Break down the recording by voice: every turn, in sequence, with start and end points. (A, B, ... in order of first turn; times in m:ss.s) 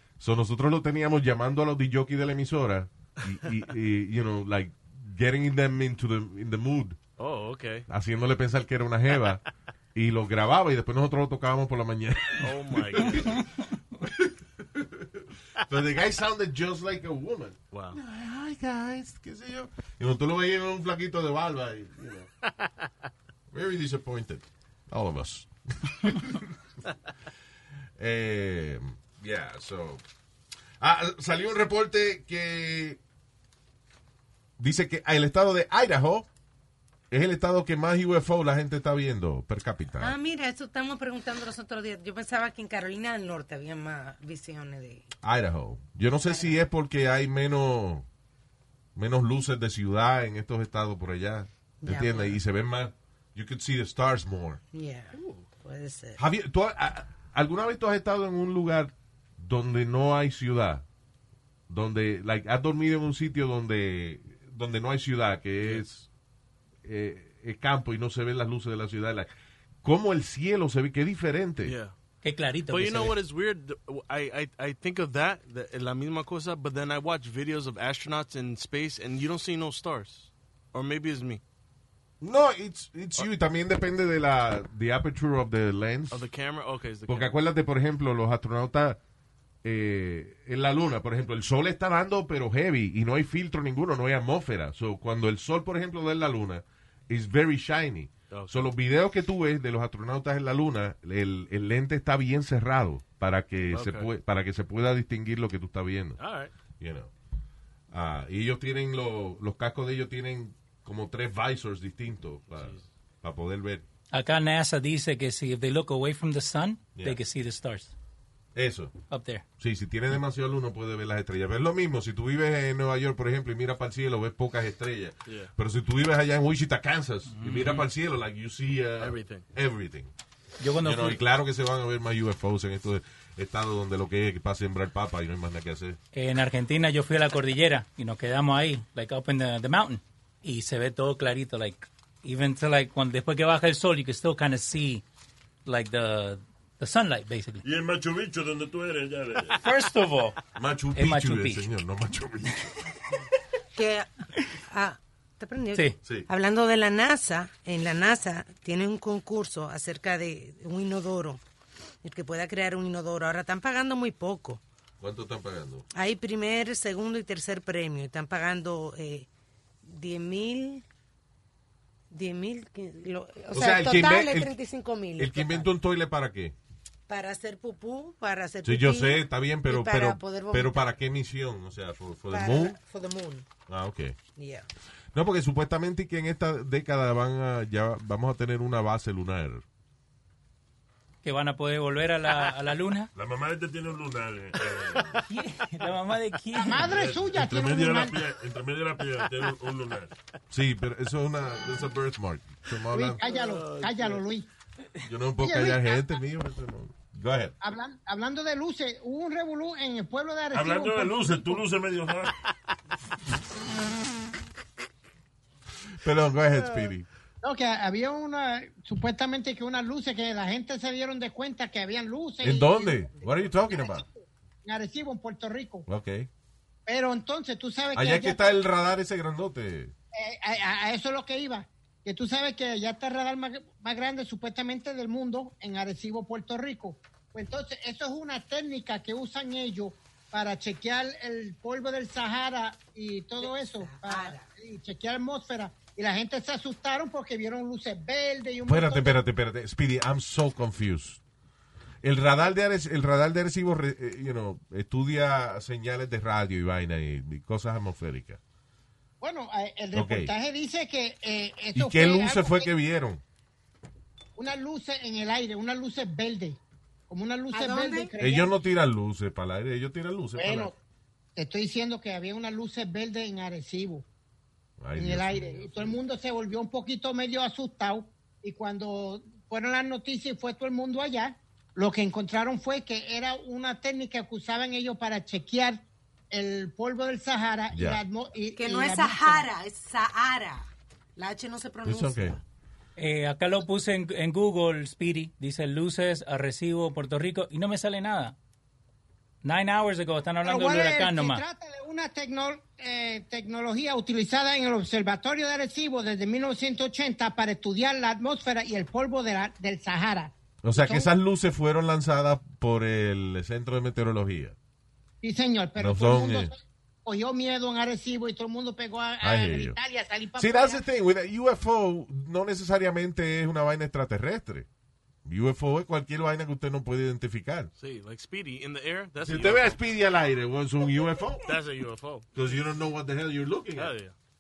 0:00.2-0:07.0 A
0:07.2-0:07.9 B
0:07.9-0:09.4 A
0:10.0-0:13.5 A
0:12.4-0:13.4 B
0:14.0-0:22.3 A
0:17.7-0:18.0 B
0:22.5-0:22.9 B
0:23.5-0:26.6 A
0:28.0-0:30.0 A
0:30.8-0:33.0 A
0:34.6-0:36.3 A
0:37.1-0:40.2 A
0:40.0-0:45.1 C
0:45.2-0:48.1 A
0:46.3-0:46.6 C
0:49.0-0:54.6 A
0:51.8-0:52.4 C
0:54.7-0:56.2 C
0:55.1-0:55.4 B
0:56.2-1:00.8 A
1:01.7-1:06.1 A
1:06.8-1:09.3 A
1:09.8-1:11.8 A
1:11.6-1:11.9 B
1:12.2-1:13.2 D
1:12.7-1:21.4 B
1:22.2-1:26.3 A
1:26.1-1:27.3 B
1:27.1-1:29.0 A
1:29.6-1:46.2 A
1:38.3-1:38.7 B
1:43.7-1:44.1 B
1:46.2-1:46.5 B
1:46.8-1:47.1 A
1:47.9-1:53.8 A
1:52.5-1:52.8 B
1:54.1-1:57.9 D
1:58.6-1:58.9 A
1:59.1-1:59.4 D
1:59.6-2:10.1 A
2:07.3-2:07.8 D
2:09.0-2:09.4 B
2:10.6-2:11.2 D
2:10.8-2:16.0 A
2:16.1-2:25.0 D
2:25.6-2:27.6 D
2:27.6-2:29.6 E
2:29.6-2:30.4 D
2:30.6-2:32.8 A
2:31.0-2:31.7 D
2:33.8-2:41.4 C
2:42.0-2:44.6 C
2:45.0-2:45.8 A
2:45.9-2:49.3 C
2:49.8-2:50.8 C
2:52.1-2:55.7 C
2:53.5-2:54.5 A
2:55.2-2:56.6 A
2:57.1-3:00.9 C
2:58.6-3:02.8 A
3:02.3-3:03.5 C
3:03.7-3:04.2 A
3:04.4-3:04.7 C
3:05.1-3:09.6 A
3:11.2-3:13.1 D
3:13.2-3:15.2 E
3:15.3-3:17.0 D
3:16.6-3:18.2 F
3:16.8-3:20.1 E
3:20.5-3:23.2 A
3:22.9-3:24.5 F
3:23.2-3:24.2 B
3:25.0-3:27.6 A
3:25.4-3:26.0 F
3:27.6-3:31.6 F
3:30.5-3:32.4 E
3:36.0-3:37.1 A
3:37.4-3:45.9 F
3:42.4-3:44.0 A
3:45.9-3:46.3 A
3:46.9-3:48.6 F
3:48.0-3:49.9 A
3:50.1-4:09.2 F
4:03.4-4:04.5 C
4:08.7-4:11.2 A
4:12.0-4:18.4 A
4:19.2-4:22.7 F
4:19.9-4:20.3 A
4:21.8-4:23.2 A
4:24.4-4:28.5 F
4:27.5-4:28.1 C
4:28.2-4:30.7 A
4:30.4-4:30.7 F
4:31.4-4:34.1 F
4:34.8-4:36.0 A
4:35.0-4:49.5 F
4:47.7-4:48.0 A
4:48.6-4:52.4 C
4:51.8-4:52.4 A
4:53.0-4:58.4 D
4:59.4-5:01.4 D
5:00.4-5:11.1 F
5:10.6-5:14.6 A
5:15.2-5:20.8 F
5:15.8-5:16.5 A
5:19.2-5:19.8 A
5:20.4-5:24.7 A
5:25.2-5:27.7 A
5:27.8-5:29.8 B
5:29.2-5:31.5 A
5:31.4-5:32.3 B
5:32.4-5:33.9 A
5:33.8-5:34.1 B